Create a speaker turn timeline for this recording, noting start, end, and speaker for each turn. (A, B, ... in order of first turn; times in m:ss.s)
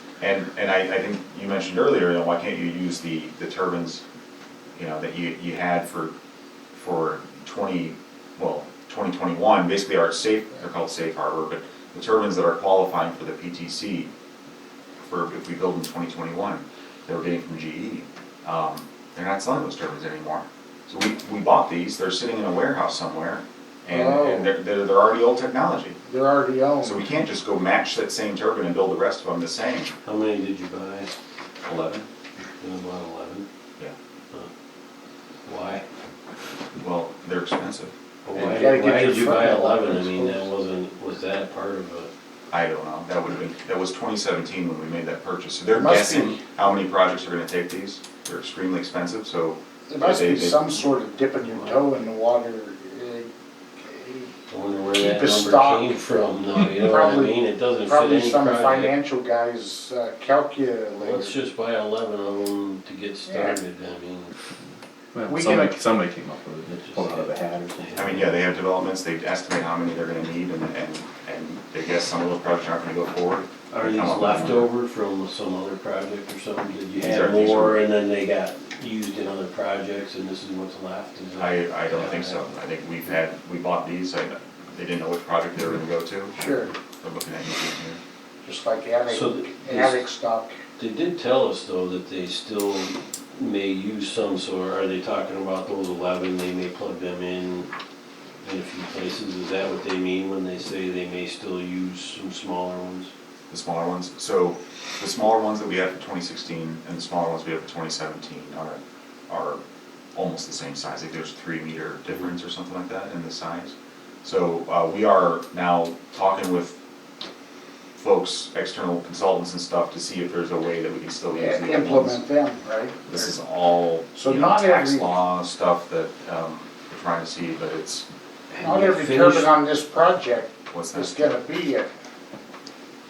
0:00.2-0:04.0 A
0:04.8-0:06.1 A
0:06.7-0:14.1 A
0:15.0-0:26.0 A
0:23.9-0:24.5 B
0:26.0-0:27.1 B
0:26.8-0:29.9 A
0:30.0-0:31.1 C
0:31.6-0:32.0 A
0:32.6-0:33.4 C
0:35.4-0:35.8 C
0:36.8-0:37.9 A
0:38.2-0:42.1 C
0:38.3-0:40.5 B
0:42.5-0:50.6 A
0:45.7-0:46.4 B
0:49.9-0:54.3 B
0:51.4-0:51.8 C
0:54.5-0:58.9 C
0:54.9-1:01.4 B
1:01.0-1:04.3 C
1:03.3-1:03.6 B
1:05.2-1:07.8 D
1:05.3-1:05.7 B
1:06.6-1:08.3 C
1:07.9-1:14.7 A
1:13.7-1:22.5 C
1:17.0-1:17.8 A
1:21.4-1:28.0 A
1:26.3-1:26.7 B
1:28.4-1:30.6 B
1:29.1-1:30.1 C
1:30.8-1:37.7 C
1:38.4-1:43.1 C
1:43.5-1:49.6 A
1:50.1-1:56.8 A
1:58.0-2:02.2 A
2:01.3-2:03.2 B
2:03.0-2:08.0 A
2:04.1-2:05.1 B
2:08.5-2:09.5 C
2:08.6-2:11.9 B
2:10.7-2:11.2 A